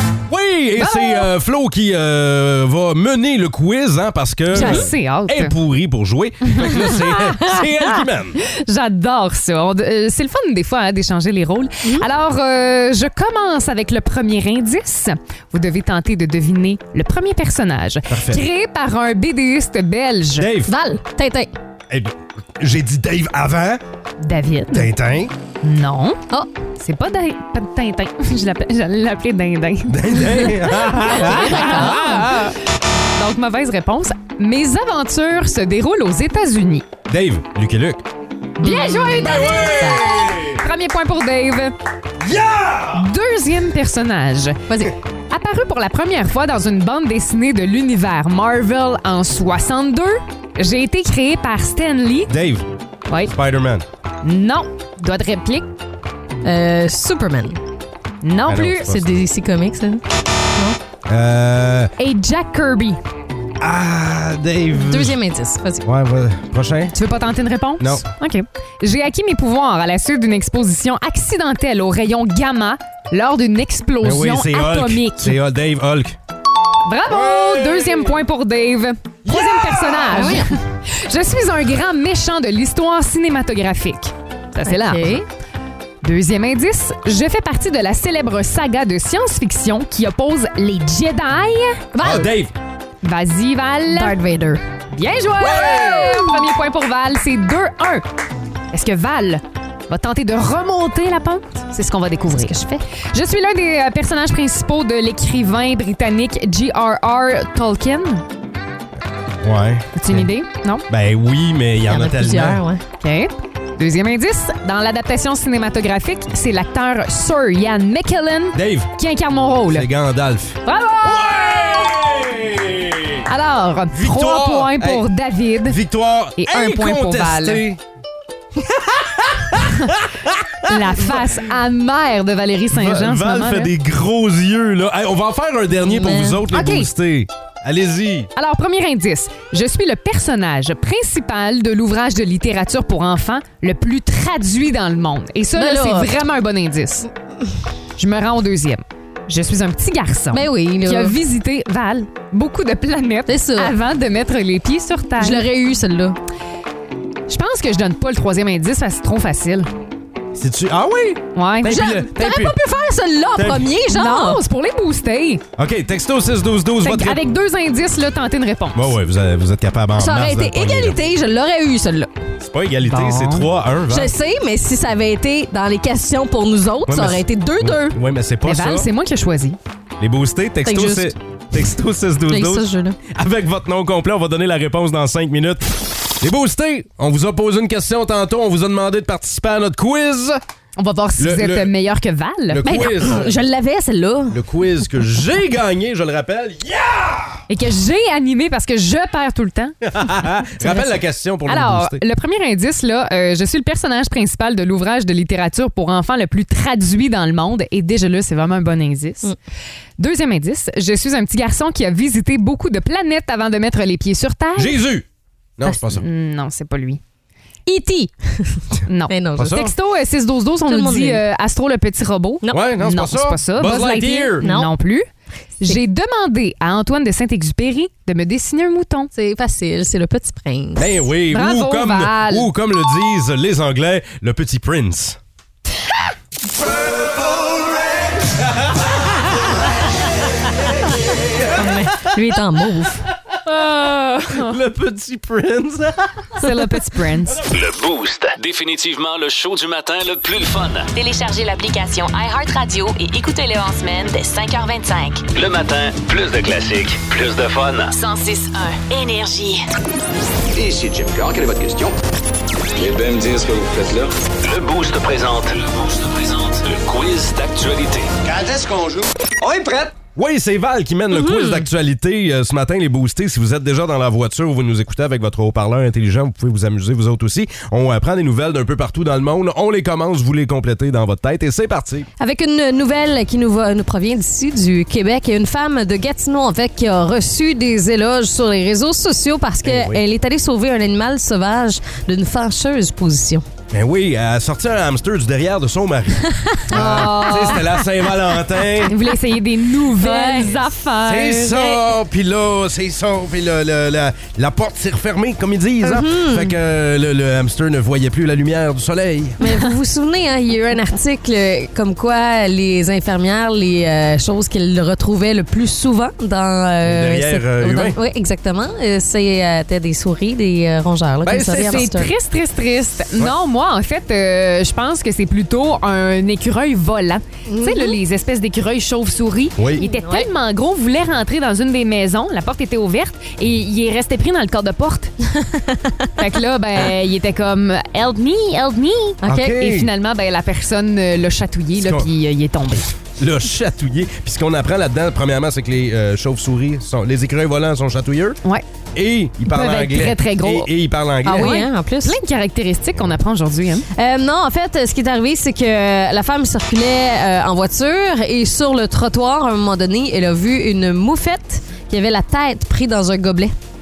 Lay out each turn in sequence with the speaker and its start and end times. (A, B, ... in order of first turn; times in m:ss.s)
0:00.3-0:08.4 A
0:00.8-0:01.3 B
0:04.5-0:05.6 B
0:04.5-0:04.8 C
0:06.5-0:07.5 B
0:08.4-0:20.5 B
0:18.1-0:18.4 A
0:20.4-0:20.7 A
0:20.6-0:21.5 C
0:21.9-0:23.8 A
0:24.2-0:24.9 B
0:24.7-0:25.3 A
0:25.6-0:26.2 B
0:26.8-0:32.5 B
0:29.9-0:32.5 A
0:31.1-0:32.2 C
0:33.1-0:36.9 B
0:37.1-0:38.0 A
0:38.6-0:40.2 C
0:38.6-0:41.7 B
0:39.1-0:40.6 A
0:42.2-0:43.1 A
0:42.9-0:52.3 B
0:52.3-0:52.6 A
0:53.1-0:53.3 B
0:53.3-0:53.8 A
0:54.2-0:55.7 B
0:56.4-0:57.6 C
0:58.2-0:59.0 B
0:58.5-0:59.1 A
0:58.9-1:00.0 C
1:01.0-1:01.9 A
1:02.0-1:03.0 B
1:03.6-1:05.2 A
1:04.7-1:05.8 C
1:05.8-1:06.9 A
1:06.9-1:15.4 B
1:07.8-1:08.0 A
1:14.0-1:16.2 A
1:16.8-1:25.2 B
1:17.1-1:18.2 A
1:19.2-1:20.2 A
1:20.1-1:20.5 C
1:24.6-1:25.2 C
1:26.0-1:32.2 B
1:32.0-1:32.3 C
1:32.0-1:32.5 A
1:33.0-1:34.2 B
1:33.9-1:34.6 C
1:34.9-1:38.0 B
1:35.4-1:36.2 A
1:38.7-1:48.2 B
1:42.3-1:42.6 C
1:49.4-1:50.3 A
1:49.9-1:50.8 B
1:50.9-1:52.6 A
1:51.8-1:52.8 C
1:53.0-1:59.9 B
1:58.5-1:58.9 A
1:59.7-2:03.3 A
2:00.6-2:01.3 B
2:03.2-2:05.8 B
2:03.9-2:05.0 A
2:05.6-2:07.8 A
2:06.4-2:07.6 B
2:08.6-2:11.4 A
2:09.6-2:09.9 B
2:10.6-2:13.7 B
2:12.7-2:18.3 A
2:15.8-2:16.4 C
2:16.5-2:16.9 B
2:18.4-2:27.1 B
2:25.5-2:26.1 C
2:28.0-2:35.4 B
2:30.3-2:31.2 C
2:33.3-2:33.7 C
2:35.2-2:36.2 C
2:37.3-2:39.7 B
2:40.3-2:42.5 A
2:41.3-2:41.8 B
2:41.6-2:44.4 C
2:43.4-2:43.7 A
2:43.9-2:45.4 B
2:45.6-2:47.2 A
2:46.8-2:49.0 B
2:48.7-2:51.0 A
2:50.0-2:52.2 C
2:52.4-2:54.1 A
2:52.8-2:53.5 B
2:53.9-2:58.0 C
2:56.9-2:58.9 A
2:58.4-2:59.6 B
3:00.0-3:05.6 A
3:00.6-3:01.1 C
3:02.3-3:03.0 C
3:06.2-3:10.4 A
3:10.8-3:12.9 B
3:11.2-3:11.7 A
3:12.5-3:13.4 A
3:12.6-3:14.4 C
3:14.3-3:17.4 A
3:17.5-3:20.8 B
3:19.8-3:22.0 A
3:21.4-3:29.3 B
3:30.0-3:34.8 B
3:34.6-3:35.0 A
3:35.6-3:36.0 A
3:35.9-3:37.0 B
3:37.6-3:39.7 C
3:38.8-3:45.0 B
3:39.4-3:39.7 A
3:40.6-3:41.2 C
3:42.5-3:44.5 A
3:44.4-3:44.7 C
3:45.6-3:49.1 B
3:49.1-3:51.1 C
3:50.8-3:55.2 A
3:51.3-3:52.5 B
3:56.7-3:58.7 A
4:00.6-4:02.1 A
4:01.5-4:03.0 C
4:03.8-4:04.2 C
4:04.4-4:06.3 A
4:06.4-4:07.4 B
4:07.5-4:10.9 D
4:10.9-4:15.2 E
4:15.3-4:17.9 D
4:17.9-4:19.6 E
4:20.5-4:22.0 F
4:22.7-4:24.1 F
4:24.4-4:28.2 D
4:28.2-4:29.9 F
4:30.1-4:42.1 A
4:31.1-4:31.7 C
4:42.2-4:53.4 C
4:49.6-4:50.0 A
4:53.7-4:58.9 A
4:56.2-4:57.8 C
4:56.7-4:57.7 B
4:58.6-4:58.9 C
4:58.9-5:01.8 B
4:59.9-5:00.7 C
5:01.0-5:09.4 A
5:05.8-5:06.5 C
5:09.4-5:22.1 C
5:09.4-5:09.7 B
5:16.8-5:18.0 A
5:21.2-5:21.8 A
5:21.6-5:35.1 B
5:27.4-5:28.0 C
5:29.6-5:29.8 A
5:29.8-5:30.3 C
5:35.4-5:36.1 C
5:36.2-5:42.9 B
5:39.2-5:39.6 C
5:39.2-5:39.9 A
5:41.8-5:42.1 A
5:43.2-5:48.4 A
5:49.0-5:51.6 A
5:49.5-5:50.7 B
5:51.2-5:52.2 C
5:51.3-5:53.9 B
5:53.9-6:03.5 C